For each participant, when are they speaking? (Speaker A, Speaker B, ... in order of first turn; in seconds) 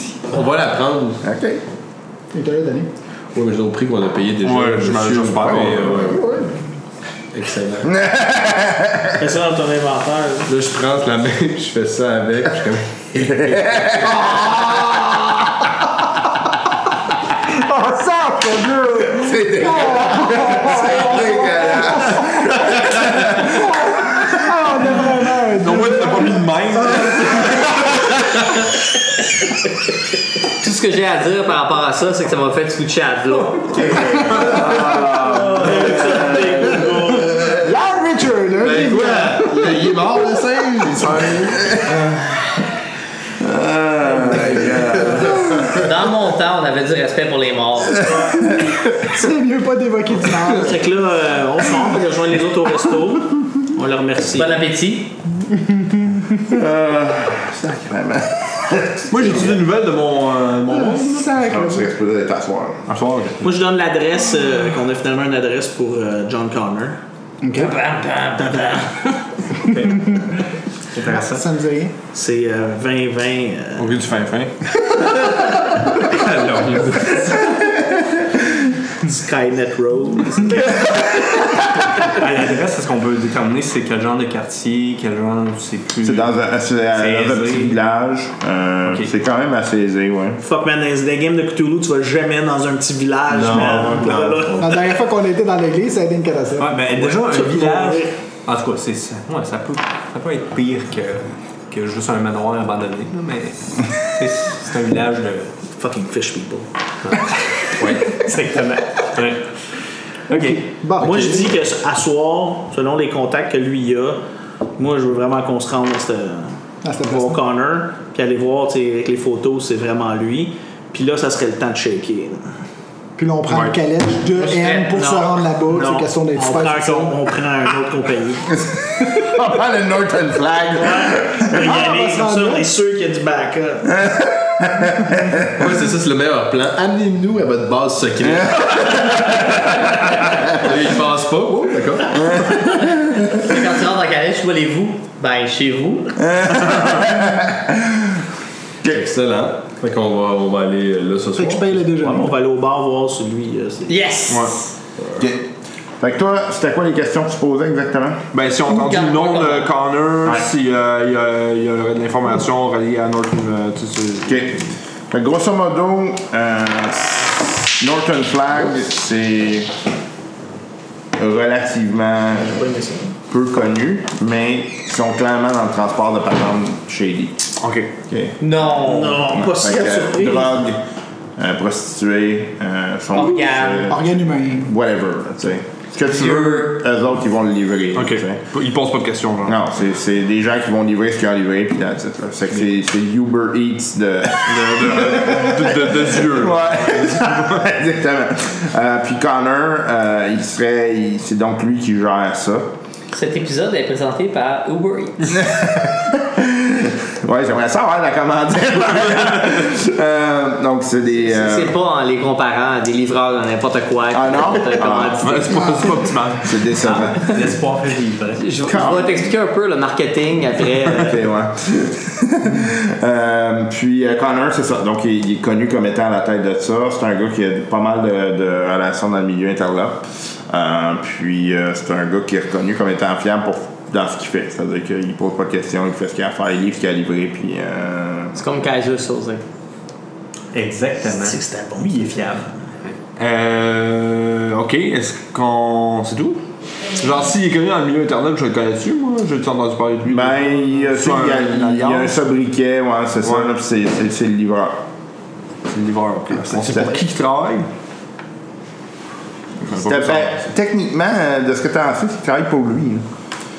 Speaker A: 0.2-1.2, 3.3-6.3, 7.3-7.9, 10.5-13.9, 35.2-35.9, 38.6-41.8, 44.4-45.2, 93.3-94.7, 135.6-142.4, 148.8-151.9
Speaker B: 1.2-1.6, 8.0-9.0, 13.8-14.1, 19.1-23.0, 43.6-45.1, 56.5-59.0, 61.4-62.8, 86.0-90.4, 129.0-131.5, 134.1-135.3, 146.3-147.6, 155.2-155.5, 156.0-158.2, 164.3-169.7, 171.2-172.6, 173.3-177.5, 178.1-180.8, 181.4-188.4, 189.4-202.7, 205.3-211.7, 214.1-215.7, 216.4-217.4, 218.7-219.2, 220.9-238.4, 250.1-254.8, 256.3-257.0, 259.7-263.1
Speaker C: 2.3-2.9, 14.2-14.9, 17.7-27.7, 34.5-35.2, 37.5-40.9, 48.9-50.9, 60.7-61.8, 67.4-67.8, 69.7-70.2, 71.0-71.9, 94.6-96.9, 110.3-111.6, 116.8-117.4, 123.2-127.2, 131.5-132.7, 151.3-152.3, 183.9-184.7
Speaker D: 4.4-6.1, 25.6-28.6, 59.1-61.4, 62.9-63.5, 73.8-74.5, 123.5-123.8, 154.3-154.5, 158.3-164.4, 177.6-177.9, 187.9-189.6, 194.4-197.6, 209.0-209.3, 215.2-216.6, 243.2-246.4, 247.0-252.2, 253.2-253.5, 255.7-257.7, 259.6-260.4
Speaker E: 9.2-10.5, 33.7-37.4, 50.5-54.6, 63.4-67.0, 68.3-68.9, 72.1-74.0, 79.0-81.4, 90.4-94.9, 97.0-98.1, 105.8-106.7, 111.0-114.2, 114.8-122.5, 125.7-128.5, 130.7-134.0, 152.0-153.9, 172.3-173.1, 178.8-180.6, 241.0-242.5
Speaker F: 30.6-34.0, 45.7-48.1, 54.3-55.1, 67.6-68.4, 124.4-125.3, 142.7-146.2, 153.9-154.6, 158.7-159.7, 178.4-179.3, 183.1-183.9, 186.1-186.7, 203.1-205.3, 211.2-215.9, 216.9-217.3, 218.4-221.1, 238.3-239.4
Speaker G: 69.7-70.2, 70.9-71.5, 76.1-77.3, 82.0-86.4, 86.9-87.8, 88.8-89.1, 96.6-105.5, 107.0-109.4, 110.3-110.6, 217.2-218.4, 240.5-242.9